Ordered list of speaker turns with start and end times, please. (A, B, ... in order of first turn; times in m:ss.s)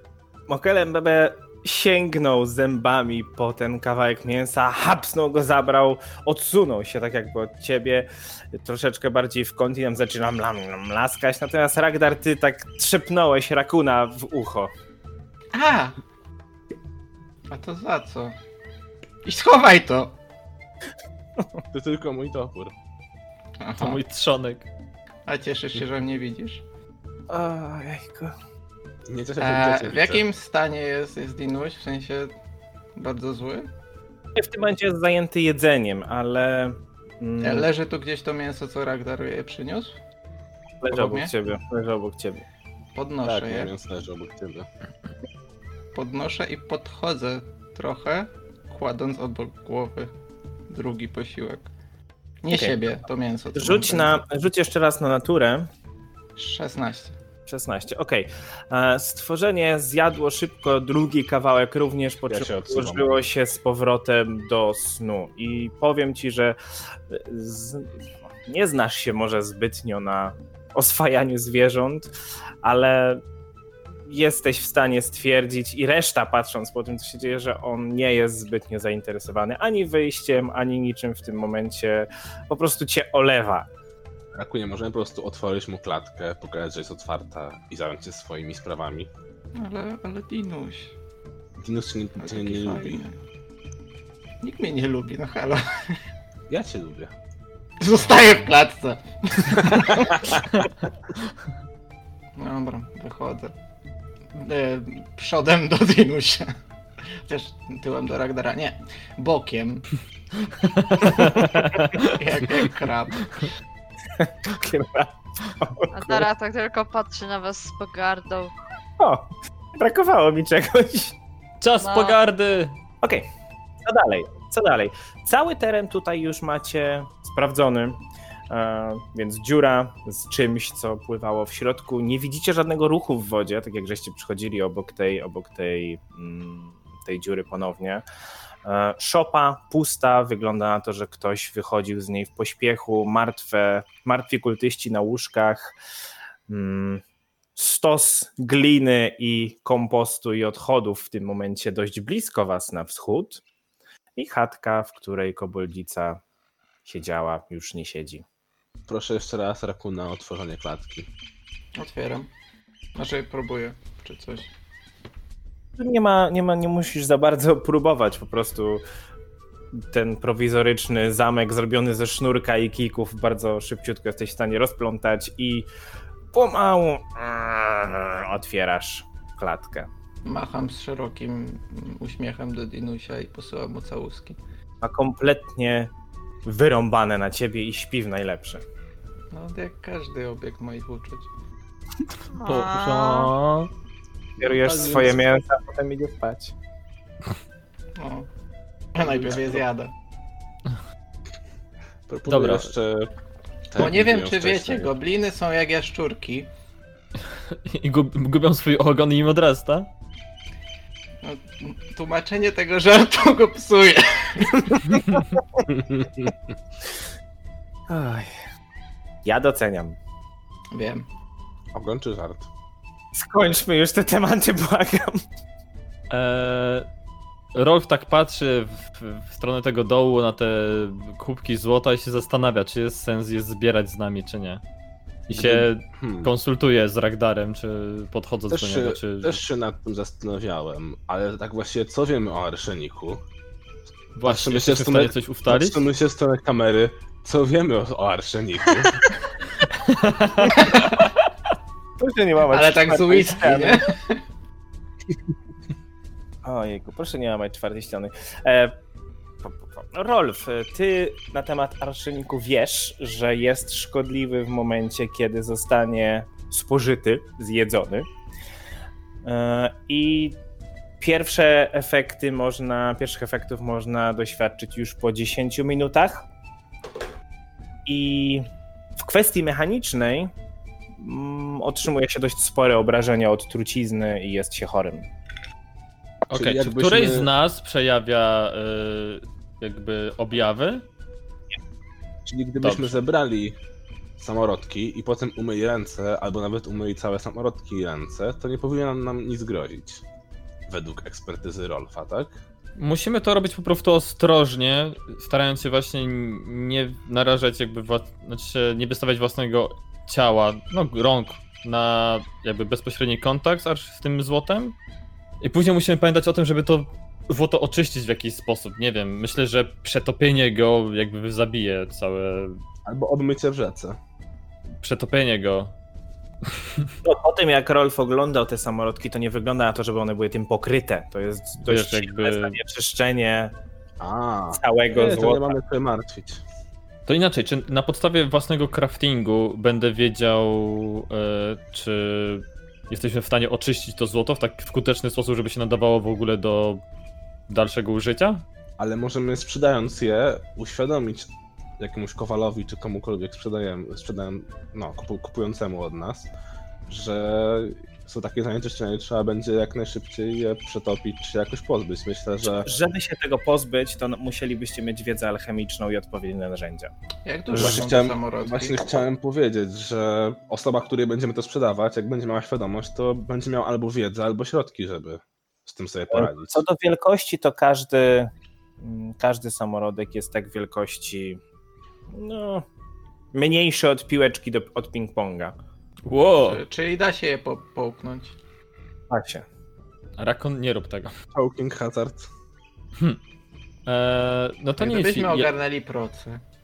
0:00.5-0:14.7 A
0:15.5-0:16.0 B
0:17.5-0:18.4 B
0:19.2-0:20.1 B
0:21.7-0:22.7 C
0:23.6-0:24.0 B
0:23.8-0:24.7 D
0:25.3-0:26.6 B
0:27.3-0:28.3 A
0:29.1-0:30.2 C
0:29.4-0:32.3 B
0:33.0-0:33.7 B
0:34.4-0:37.7 A
0:37.4-0:40.0 B
0:40.8-0:42.4 A
0:40.9-0:41.3 B
0:42.9-0:43.7 B
0:43.2-0:44.7 C
0:45.9-0:50.1 B
0:50.7-0:51.7 B
0:52.4-0:54.2 B
0:52.5-0:52.8 A
0:53.6-0:55.7 A
0:56.4-0:57.1 B
0:57.5-1:06.6 A
1:02.3-1:03.2 C
1:07.1-1:12.1 A
1:12.6-1:13.2 A
1:14.0-1:23.7 A
1:24.3-1:29.1 C
1:29.6-1:30.9 B
1:31.6-1:33.0 C
1:32.2-1:33.2 B
1:34.4-1:36.0 B
1:36.5-1:37.1 C
1:37.8-1:40.3 B
1:39.9-1:40.4 C
1:42.4-1:43.5 B
1:44.3-1:46.5 B
1:47.2-1:50.0 B
1:50.6-1:52.2 D
1:52.0-1:53.5 B
1:54.2-1:56.3 A
1:55.9-1:58.5 E
1:59.0-2:01.2 A
2:01.6-2:02.8 D
2:01.8-2:02.2 E
2:03.0-2:03.3 A
2:03.8-2:18.0 A
2:18.6-2:25.7 A
2:26.5-2:27.0 A
2:27.6-2:33.4 A
2:34.2-2:36.2 A
2:36.8-2:38.2 A
2:38.9-2:41.1 C
2:41.8-2:42.3 B
2:42.9-2:44.5 B
2:45.8-2:48.8 A
2:49.7-2:55.7 A
2:56.3-2:59.9 A
3:00.2-3:04.4 B
3:04.8-3:05.9 A
3:06.4-3:08.6 A
3:09.3-3:11.3 B
3:12.3-3:13.3 E
3:12.4-3:13.7 D
3:14.4-3:15.2 C
3:14.4-3:16.5 A
3:18.0-3:18.3 B
3:18.9-3:19.9 B
3:19.2-3:19.6 C
3:22.1-3:23.1 C
3:22.3-3:22.7 D
3:23.7-3:24.9 C
3:23.7-3:26.5 B
3:27.3-3:29.9 D
3:31.2-3:34.9 B
3:35.7-3:36.4 C
3:37.9-3:38.3 A
3:39.2-3:40.0 A
3:40.7-3:41.0 B
3:41.7-3:42.5 C
3:43.1-3:45.2 A
3:46.1-3:46.9 D
3:47.5-3:54.6 D
3:55.3-3:59.4 D
3:55.3-3:56.3 C
3:58.5-4:03.2 C
4:04.1-4:05.8 D
4:04.2-4:09.0 C
4:09.6-4:10.7 D
4:10.6-4:11.0 B
4:12.0-4:13.8 A
4:12.5-4:14.2 B
4:16.4-4:18.7 A
4:19.4-4:28.1 A
4:29.2-4:30.4 A
4:31.0-4:36.2 A
4:37.8-4:38.5 A
4:39.0-4:40.3 A
4:41.0-4:45.1 A
4:46.3-4:47.3 C
4:46.3-4:50.8 D
4:52.2-4:53.6 C
4:52.6-4:53.0 D
4:54.2-5:00.0 C
5:00.7-5:02.4 C
5:02.8-5:14.8 D
5:15.4-5:22.6 D
5:22.8-5:24.0 C
5:24.8-5:25.7 D
5:26.6-5:26.9 D
5:27.0-5:33.5 A
5:31.6-5:32.6 D
5:34.0-5:36.4 C
5:34.5-5:35.6 A
5:37.1-5:46.8 D
5:47.5-5:48.4 D
5:48.8-5:56.3 C
5:56.9-6:02.7 C
6:02.4-6:06.9 A
6:07.2-6:08.8 B
6:07.5-6:07.9 A
6:07.5-6:16.6 C
6:16.1-6:21.4 A
6:22.1-6:22.6 A
6:23.3-6:25.6 A
6:26.0-6:26.6 D
6:26.4-6:28.4 B
6:29.1-6:29.4 A
6:30.2-6:31.1 D
6:31.3-6:32.3 C
6:33.8-6:35.5 D
6:34.8-6:36.4 B